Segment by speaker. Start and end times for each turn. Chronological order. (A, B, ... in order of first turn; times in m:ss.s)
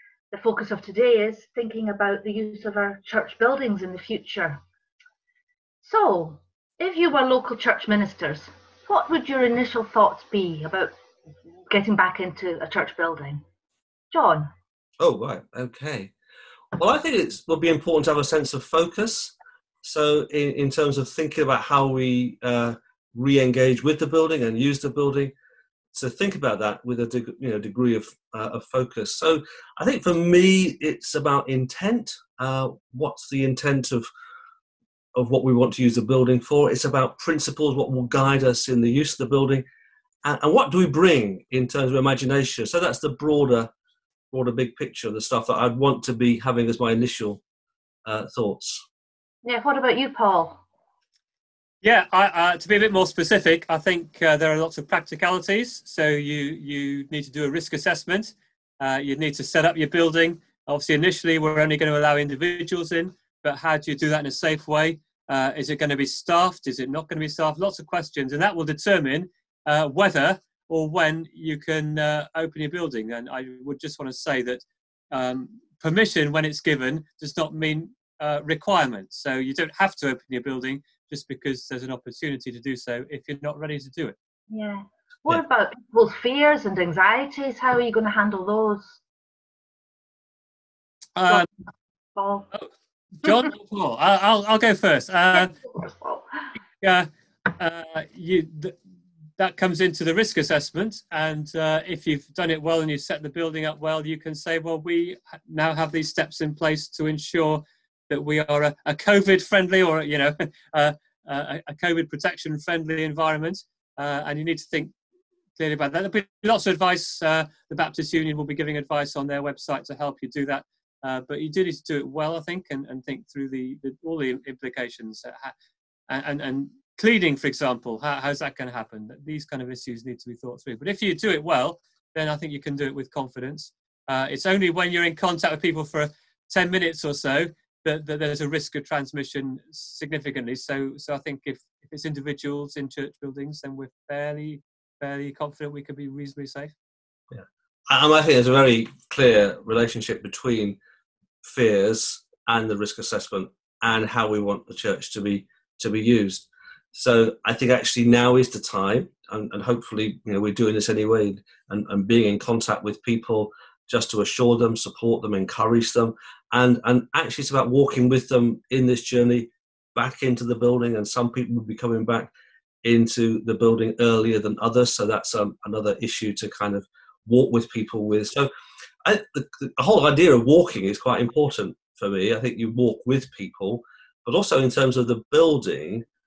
0:00.3-0:04.6 A
0:05.8-0:10.9 A
0:11.7-0:13.4 A
0:14.1-0:14.5 A
0:15.0-0:16.1 B
0:16.8-0:25.3 B
0:25.9-0:34.1 B
0:35.2-0:39.6 B
0:40.2-0:43.7 B
0:44.3-0:47.4 B
0:48.1-0:48.8 B
0:49.4-0:50.6 A
0:51.8-1:24.2 C
1:24.5-1:29.0 A
1:31.2-1:31.5 C
1:32.2-1:32.5 A
1:33.2-1:35.5 C
1:35.4-1:36.5 A
1:36.8-1:38.8 C
1:39.4-1:54.9 C
1:55.6-2:05.5 C
2:06.1-2:26.7 C
2:27.3-2:30.8 B
2:31.4-2:52.3 B
2:52.8-2:58.5 B
2:59.0-3:06.1 B